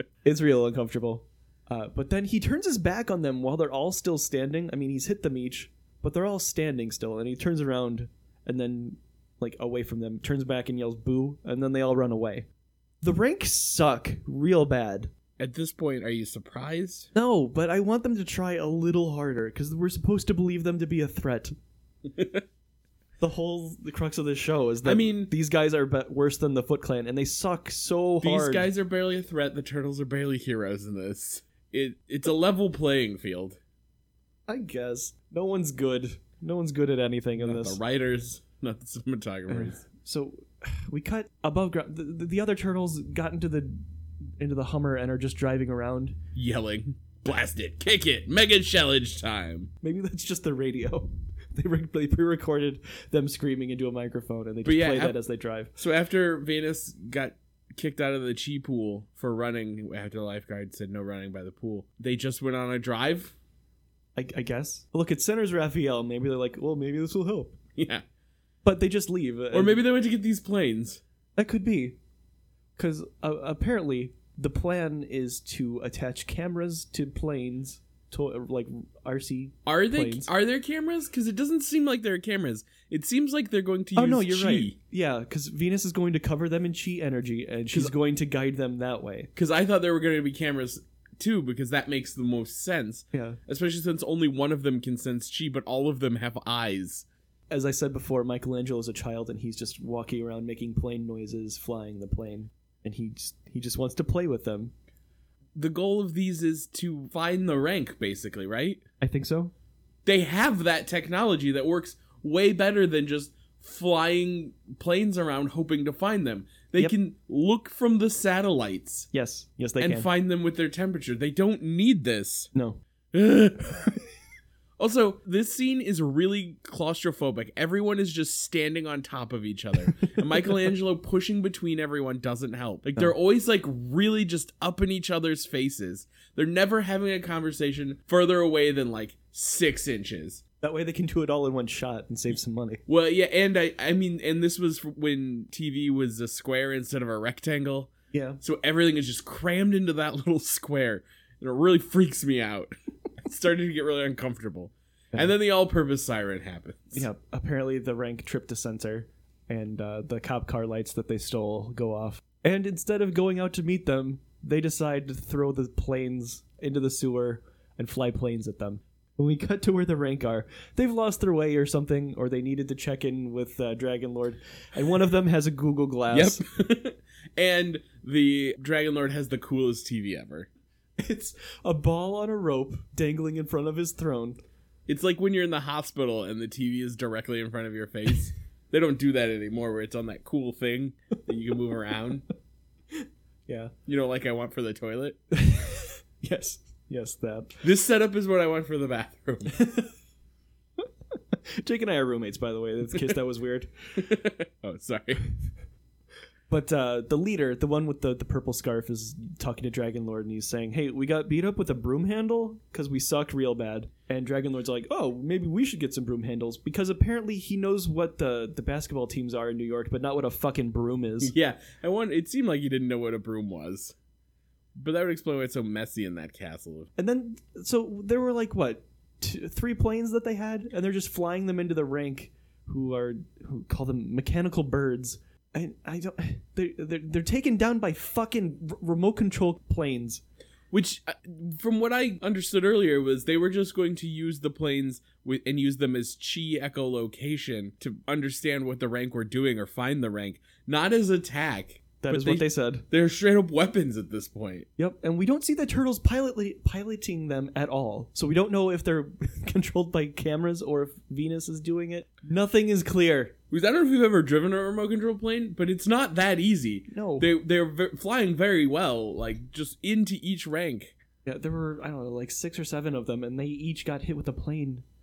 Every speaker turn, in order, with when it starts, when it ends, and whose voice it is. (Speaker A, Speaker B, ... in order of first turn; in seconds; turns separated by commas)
Speaker A: 0.2-12.5, Speaker A: 13.0-15.1, Speaker B: 15.4-17.1, Speaker A: 17.1-21.5, Speaker B: 22.1-22.4, Speaker A: 23.2-28.7, Speaker B: 24.8-25.3, Speaker B: 28.2-33.6, Speaker A: 34.5-37.8, Speaker B: 37.4-39.8, Speaker A: 39.5-43.8, Speaker A: 44.4-46.2, Speaker B: 46.3-49.7, Speaker A: 49.8-55.7, Speaker B: 54.6-55.2, Speaker B: 55.8-63.3, Speaker A: 64.2-67.6, Speaker B: 67.8-68.0, Speaker A: 68.6-69.8, Speaker B: 69.5-71.0, Speaker A: 71.3-72.0, Speaker A: 72.8-80.3, Speaker B: 79.7-84.8, Speaker A: 84.0-89.3, Speaker B: 89.3-97.0, Speaker A: 93.1-93.4, Speaker A: 97.5-104.7, Speaker B: 105.5-108.8, Speaker A: 109.0-109.5, Speaker B: 110.0-119.1, Speaker A: 119.1-120.1, Speaker B: 119.8-122.5, Speaker A: 122.5-122.8, Speaker B: 123.1-124.0, Speaker B: 124.8-140.4, Speaker A: 140.6-142.8, Speaker B: 142.9-157.0, Speaker A: 148.1-148.4, Speaker A: 156.9-176.4, Speaker B: 176.1-180.5, Speaker A: 181.0-184.4, Speaker B: 184.9-192.2, Speaker A: 192.9-193.7, Speaker B: 193.9-195.2, Speaker A: 195.3-197.6, Speaker B: 197.6-199.6, Speaker A: 199.6-199.9, Speaker A: 201.6-204.0, Speaker B: 204.0-205.2, Speaker A: 206.5-221.3, Speaker B: 221.2-223.9, Speaker B: 224.7-226.9, Speaker A: 226.9-240.2, Speaker B: 240.7-254.7, Speaker A: 252.0-252.8, Speaker A: 254.8-263.3, Speaker B: 263.5-270.9, Speaker A: 266.9-267.3, Speaker A: 271.2-274.8